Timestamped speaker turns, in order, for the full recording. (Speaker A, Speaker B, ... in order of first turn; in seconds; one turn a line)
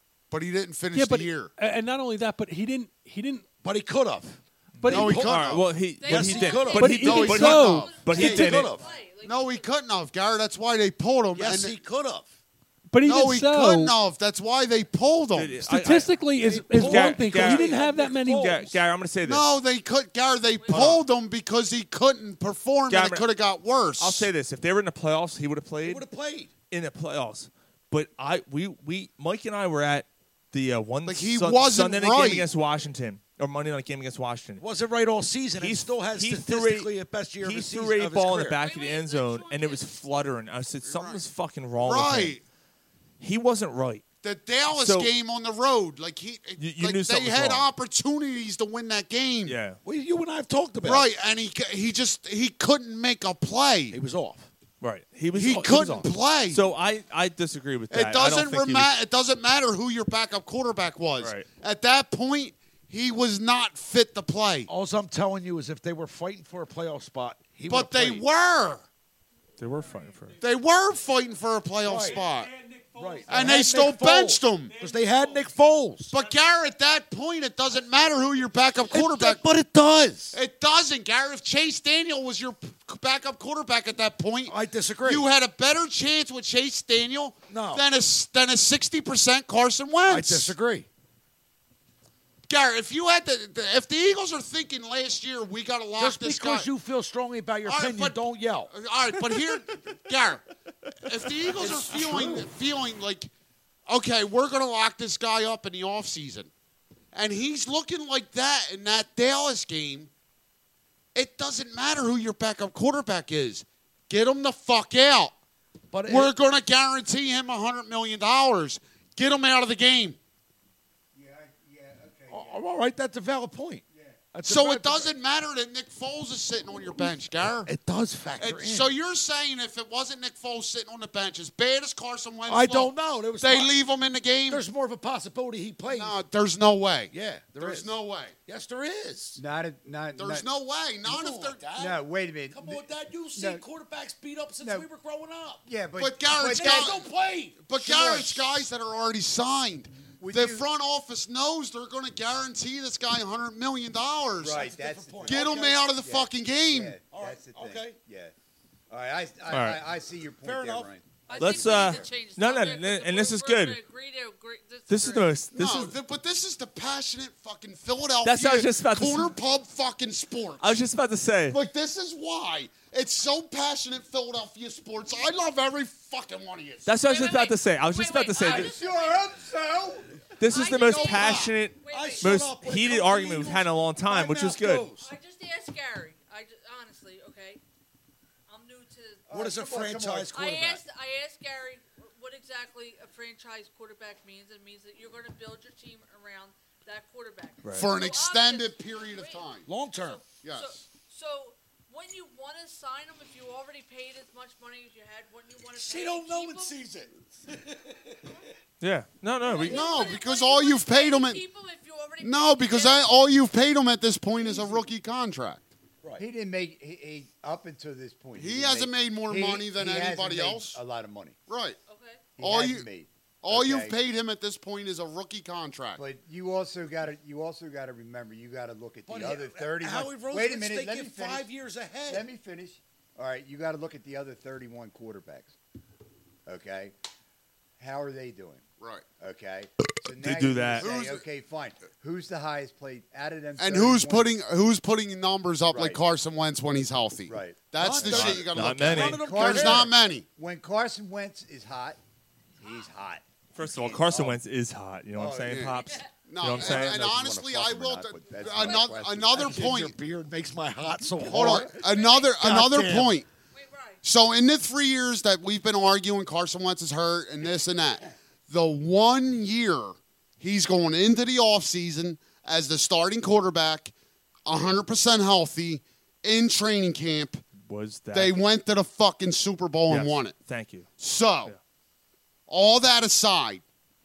Speaker A: 0.3-1.5
Speaker B: 0.9-3.4
Speaker C: 3.6-7.3
Speaker D: 4.8-8.7
Speaker B: 4.8-5.2
Speaker A: 4.9-5.7
Speaker E: 6.0-9.7
Speaker B: 6.8-8.7
Speaker A: 6.8-11.8
Speaker C: 8.0-8.9
Speaker C: 11.3-12.3
Speaker B: 12.9-13.9
Speaker A: 13.0-15.6
Speaker D: 15.3-16.1
Speaker B: 15.6-18.6
Speaker C: 16.4-18.8
Speaker D: 16.7-17.8
Speaker D: 18.3-19.4
Speaker A: 19.2-24.3
Speaker E: 20.6-20.9
Speaker D: 20.7-21.0
Speaker D: 22.9-23.3
Speaker D: 24.0-26.1
Speaker C: 25.8-26.5
Speaker D: 26.7-34.6
Speaker A: 31.0-32.4
Speaker C: 34.6-38.6
Speaker D: 35.6-42.4
Speaker E: 38.5-39.9
Speaker A: 40.9-41.2
Speaker A: 41.8-42.4
Speaker D: 43.2-44.0
Speaker A: 44.2-49.6
Speaker D: 44.7-45.1
Speaker D: 46.6-47.7
Speaker D: 49.4-49.8
Speaker C: 49.8-51.1
Speaker A: 50.8-54.0
Speaker C: 53.9-54.5
Speaker D: 54.8-58.9
Speaker A: 55.3-56.6
Speaker A: 57.9-64.7
Speaker D: 61.2-61.5
Speaker C: 64.7-68.2
Speaker A: 67.7-68.8
Speaker D: 69.6-70.4
Speaker A: 70.4-72.5
Speaker C: 71.8-72.2
Speaker B: 72.1-73.6
Speaker C: 72.9-76.1
Speaker A: 73.3-74.7
Speaker B: 74.7-75.5
Speaker A: 76.1-79.5
Speaker C: 78.9-80.4
Speaker A: 80.3-90.5
Speaker C: 84.5-85.2
Speaker C: 87.5-87.8
Speaker C: 90.1-90.8
Speaker A: 92.5-96.7
Speaker C: 96.0-98.7
Speaker A: 97.6-100.4
Speaker A: 101.0-103.3
Speaker C: 101.6-102.5
Speaker A: 103.9-106.5
Speaker A: 107.1-110.1
Speaker A: 111.1-115.3
Speaker C: 115.9-116.3
Speaker A: 116.1-120.2
Speaker F: 121.1-122.6
Speaker C: 122.3-125.1
Speaker F: 123.9-124.3
Speaker A: 124.5-127.7
Speaker C: 127.0-128.9
Speaker A: 128.4-134.6
Speaker C: 132.5-133.7
Speaker C: 134.5-136.2
Speaker A: 135.9-138.3
Speaker C: 137.1-139.4
Speaker F: 139.4-140.4
Speaker A: 140.2-141.7
Speaker C: 141.1-145.6
Speaker F: 141.7-143.6
Speaker F: 144.6-144.9
Speaker F: 145.6-147.0
Speaker A: 146.0-147.0
Speaker C: 146.5-148.2
Speaker A: 147.6-154.6
Speaker F: 147.8-148.3
Speaker F: 150.1-150.6
Speaker F: 154.4-158.3
Speaker C: 154.5-155.7
Speaker A: 155.2-157.0
Speaker C: 157.1-158.0
Speaker F: 158.9-162.1
Speaker D: 159.5-159.8
Speaker C: 160.4-160.9
Speaker E: 161.3-165.3
Speaker D: 161.3-163.8
Speaker D: 164.9-165.9
Speaker A: 165.5-170.7
Speaker D: 168.2-169.3
Speaker D: 170.6-171.6
Speaker A: 171.5-176.9
Speaker D: 176.8-178.7
Speaker E: 177.0-179.4
Speaker F: 178.4-180.2
Speaker D: 180.4-184.9
Speaker E: 180.5-182.3
Speaker A: 180.5-181.5
Speaker C: 181.9-185.1
Speaker E: 184.9-187.6
Speaker E: 188.5-189.2
Speaker F: 189.3-190.8
Speaker C: 189.3-190.8
Speaker E: 190.3-206.8
Speaker D: 197.6-197.9
Speaker A: 197.7-199.7
Speaker C: 199.6-200.2
Speaker A: 200.3-200.8
Speaker C: 205.7-208.3
Speaker D: 208.8-209.8
Speaker E: 209.5-213.1
Speaker A: 209.6-211.4
Speaker A: 212.2-215.7
Speaker F: 214.3-214.9
Speaker F: 216.2-221.4
Speaker A: 218.4-220.8
Speaker A: 221.5-221.8
Speaker E: 221.9-222.3
Speaker F: 222.3-224.0
Speaker A: 222.4-222.9
Speaker A: 223.4-226.0
Speaker F: 226.0-231.5
Speaker C: 229.1-232.3
Speaker F: 232.1-235.5
Speaker F: 236.4-236.9
Speaker F: 237.8-238.6
Speaker A: 238.8-239.0
Speaker F: 239.2-244.3
Speaker D: 240.2-240.9
Speaker A: 240.8-241.3
Speaker A: 243.6-250.2
Speaker F: 245.7-246.0
Speaker F: 247.3-248.4
Speaker C: 247.8-249.9
Speaker D: 248.0-249.2
Speaker F: 249.1-252.0
Speaker F: 252.6-254.4
Speaker D: 253.5-257.0
Speaker F: 255.1-255.7
Speaker A: 255.5-259.9
Speaker E: 255.8-256.1
Speaker F: 256.5-259.8
Speaker C: 259.3-263.2
Speaker A: 261.2-263.2
Speaker E: 261.8-262.4
Speaker E: 263.5-264.0
Speaker A: 264.0-273.9
Speaker A: 274.4-277.4
Speaker D: 277.6-278.4
Speaker A: 278.1-280.4
Speaker D: 279.9-280.9
Speaker A: 281.0-281.5
Speaker A: 282.5-283.6